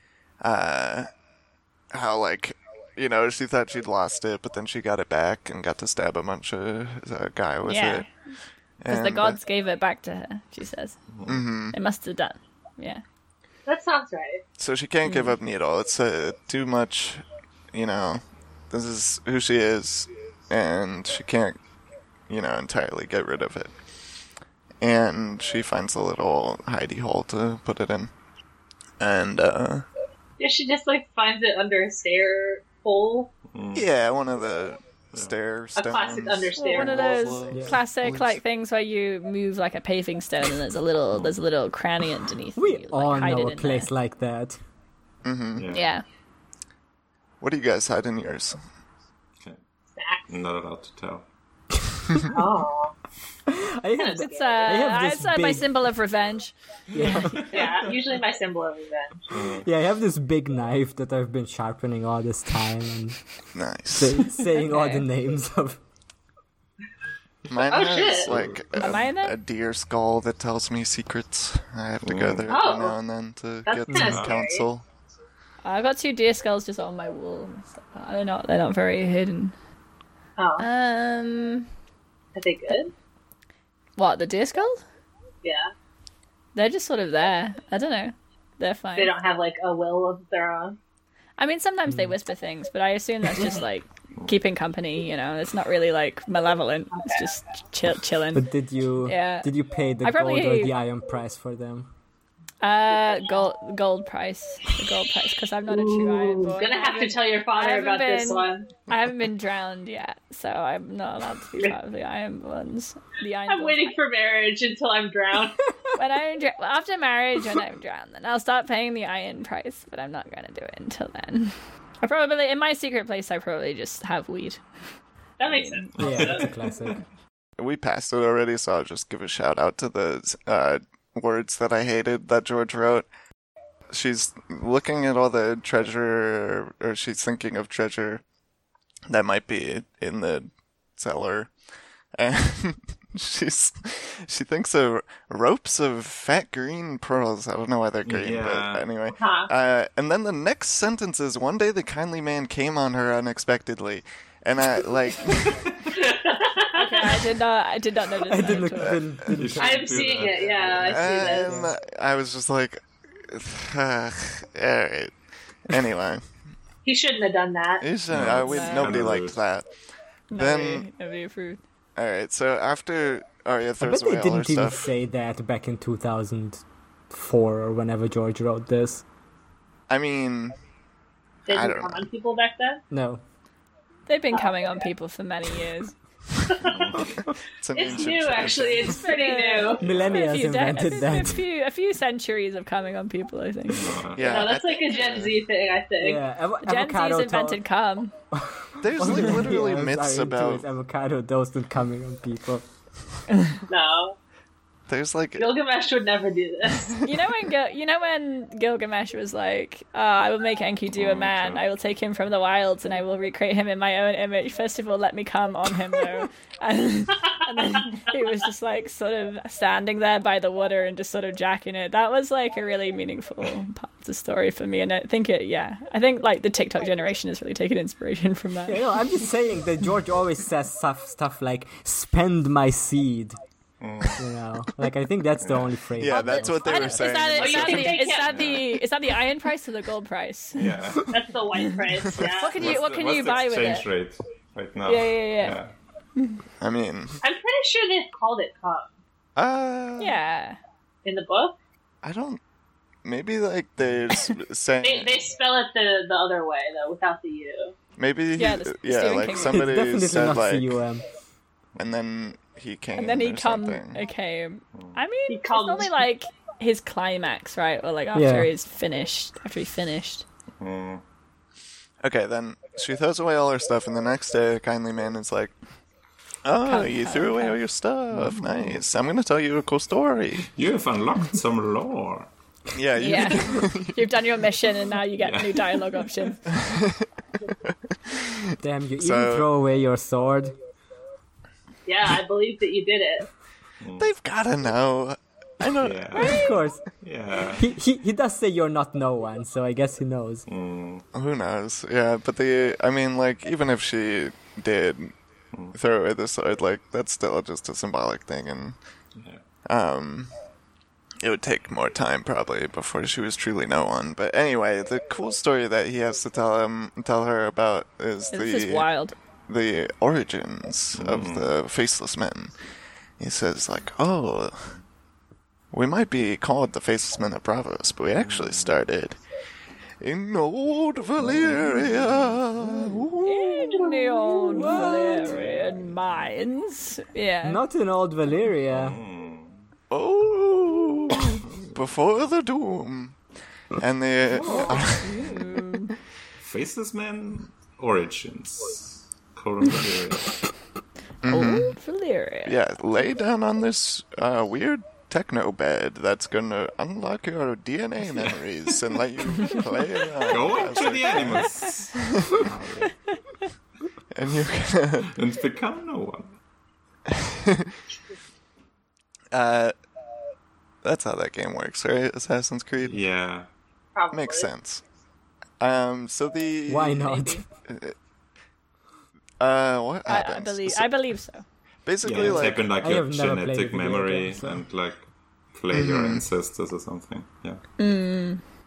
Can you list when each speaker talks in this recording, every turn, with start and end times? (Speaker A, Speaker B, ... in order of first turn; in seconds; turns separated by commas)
Speaker A: 0.4-1.1, Speaker A: 1.9-8.1, Speaker B: 7.7-8.1, Speaker A: 8.8-9.4, Speaker B: 8.9-11.0, Speaker C: 11.1-11.4, Speaker A: 11.3-11.8, Speaker B: 11.7-13.0, Speaker D: 13.7-14.4, Speaker A: 14.6-21.6, Speaker B: 15.1-15.3, Speaker A: 22.3-23.7, Speaker A: 24.8-28.1, Speaker A: 29.0-29.9, Speaker D: 30.4-33.3, Speaker C: 33.5-33.9, Speaker A: 33.7-38.4, Speaker D: 35.8-37.4, Speaker B: 36.6-43.9, Speaker E: 37.5-37.8, Speaker C: 41.1-41.4, Speaker E: 42.6-44.6, Speaker A: 45.2-45.7, Speaker C: 45.6-45.9, Speaker B: 45.7-46.0, Speaker A: 47.4-48.6, Speaker D: 49.9-50.3, Speaker C: 50.3-51.2, Speaker D: 52.3-53.0, Speaker E: 53.5-55.8, Speaker D: 54.0-54.7, Speaker B: 54.2-57.7, Speaker E: 56.9-57.5, Speaker C: 57.0-57.9, Speaker D: 57.5-59.5, Speaker C: 59.3-59.7, Speaker E: 59.6-63.2, Speaker A: 63.5-64.3, Speaker E: 64.0-65.8, Speaker B: 64.5-65.1, Speaker A: 67.5-74.8, Speaker D: 67.7-68.4, Speaker C: 68.3-68.6, Speaker B: 68.8-69.4, Speaker C: 72.0-72.5, Speaker D: 72.5-73.0, Speaker D: 73.7-74.7, Speaker C: 73.9-74.3, Speaker B: 75.6-79.5, Speaker D: 80.4-80.7, Speaker B: 80.6-81.7, Speaker D: 82.3-82.9, Speaker B: 84.0-84.8, Speaker D: 85.4-85.7, Speaker B: 86.5-89.2, Speaker D: 89.0-90.8, Speaker B: 91.4-98.5, Speaker E: 91.9-92.2, Speaker D: 96.9-97.3, Speaker E: 98.3-101.9, Speaker B: 99.0-100.8, Speaker B: 102.6-114.0, Speaker D: 105.7-108.7, Speaker D: 113.5-115.6, Speaker B: 115.9-124.6, Speaker D: 125.4-126.8, Speaker B: 125.5-126.3, Speaker E: 126.0-127.0, Speaker C: 126.1-126.3, Speaker A: 127.6-133.1, Speaker A: 133.9-138.2, Speaker A: 139.1-141.5, Speaker A: 142.2-155.7, Speaker C: 148.1-148.9, Speaker D: 149.2-149.5, Speaker D: 155.9-157.2, Speaker B: 156.7-159.0, Speaker E: 158.3-160.3, Speaker A: 158.9-159.4, Speaker C: 159.3-161.1, Speaker D: 159.6-161.6, Speaker A: 160.8-165.1, Speaker E: 161.2-161.7, Speaker A: 165.7-166.2, Speaker D: 166.8-167.8, Speaker A: 167.8-169.7, Speaker C: 168.1-169.4, Speaker B: 168.4-169.0, Speaker B: 170.3-171.6, Speaker A: 170.3-170.9, Speaker A: 172.0-174.9, Speaker E: 173.8-179.0, Speaker A: 179.9-180.6, Speaker D: 181.5-182.8, Speaker A: 181.5-182.1, Speaker E: 182.9-183.2, Speaker B: 184.1-185.9, Speaker D: 184.3-184.7, Speaker D: 186.5-186.7, Speaker C: 186.6-187.1, Speaker A: 187.6-189.0, Speaker D: 187.7-189.9, Speaker B: 188.9-193.9, Speaker C: 189.8-190.3, Speaker E: 189.8-191.4, Speaker C: 193.7-194.6, Speaker A: 194.2-195.3, Speaker D: 194.2-196.2, Speaker E: 196.0-197.6, Speaker B: 196.6-198.1, Speaker E: 198.3-202.7, Speaker A: 198.8-200.7, Speaker D: 203.7-204.2, Speaker A: 204.9-205.5, Speaker D: 205.4-206.9, Speaker A: 206.7-207.0, Speaker B: 207.0-228.8, Speaker C: 210.9-211.7, Speaker D: 217.7-218.0, Speaker E: 228.7-233.4, Speaker C: 233.8-234.2, Speaker E: 234.2-237.2, Speaker C: 235.4-235.8, Speaker A: 236.0-238.2, Speaker B: 236.1-240.7, Speaker D: 237.4-238.6, Speaker C: 238.2-238.7, Speaker C: 240.6-241.1, Speaker D: 241.1-242.5, Speaker A: 242.2-242.8, Speaker B: 242.2-243.9, Speaker C: 242.6-245.7, Speaker B: 244.9-245.6, Speaker A: 246.6-247.2, Speaker D: 247.2-249.0, Speaker A: 249.4-250.2, Speaker B: 250.0-250.6, Speaker D: 251.0-251.6, Speaker A: 252.0-252.4, Speaker A: 253.1-255.2, Speaker D: 254.8-257.8, Speaker A: 258.0-260.8, Speaker B: 258.4-259.8, Speaker E: 259.4-261.0, Speaker A: 261.8-264.0, Speaker B: 263.0-270.2, Speaker C: 264.7-265.0, Speaker D: 265.3-266.0, Speaker E: 268.1-268.5, Speaker C: 270.6-271.0, Speaker A: 272.0-275.5, Speaker A: 276.4-280.5, Speaker B: 276.6-277.6, Speaker C: 278.1-278.8, Speaker C: 280.5-282.3, Speaker A: 282.7-284.0, Speaker B: 283.0-286.5, Speaker C: 285.2-285.8, Speaker A: 286.5-287.1, Speaker A: 287.6-289.5, Speaker E: 288.6-290.5, Speaker D: 291.9-293.3, Speaker C: 293.8-294.1, Speaker A: 294.0-296.4, Speaker C: 295.8-297.7, Speaker E: 296.2-296.8, Speaker E: 297.6-300.5, Speaker C: 300.5-301.1, Speaker A: 301.1-305.1, Speaker A: 305.7-308.8, Speaker C: 309.1-309.4, Speaker A: 309.7-310.3, Speaker A: 311.2-318.9, Speaker B: 318.3-319.1, Speaker A: 319.5-322.5, Speaker C: 320.9-321.5, Speaker A: 323.2-324.8, Speaker A: 325.7-329.2, Speaker C: 328.2-328.8, Speaker A: 330.0-333.7, Speaker C: 331.2-333.0, Speaker B: 333.2-337.6, Speaker D: 333.5-335.0, Speaker E: 334.5-335.4, Speaker C: 335.2-336.2, Speaker E: 337.4-339.0, Speaker C: 338.7-339.7, Speaker A: 339.9-343.2, Speaker C: 341.4-341.8, Speaker A: 343.8-345.1, Speaker D: 344.4-344.8, Speaker B: 344.4-345.9, Speaker C: 345.1-345.6, Speaker C: 346.4-350.4, Speaker A: 351.2-351.8, Speaker B: 351.3-352.6, Speaker A: 352.4-362.5, Speaker C: 360.3-362.9, Speaker B: 362.9-363.2, Speaker A: 364.1-365.1, Speaker C: 365.1-366.4, Speaker A: 367.1-367.8, Speaker A: 369.3-369.7, Speaker A: 370.8-373.0, Speaker C: 372.8-373.5, Speaker D: 373.9-374.5, Speaker A: 374.1-374.8, Speaker A: 375.6-378.0, Speaker E: 376.7-377.4, Speaker B: 377.1-377.4, Speaker A: 379.4-380.9, Speaker B: 380.1-381.4, Speaker A: 381.9-382.7, Speaker C: 382.0-387.6, Speaker E: 382.8-384.6, Speaker A: 385.7-386.2, Speaker B: 387.8-388.4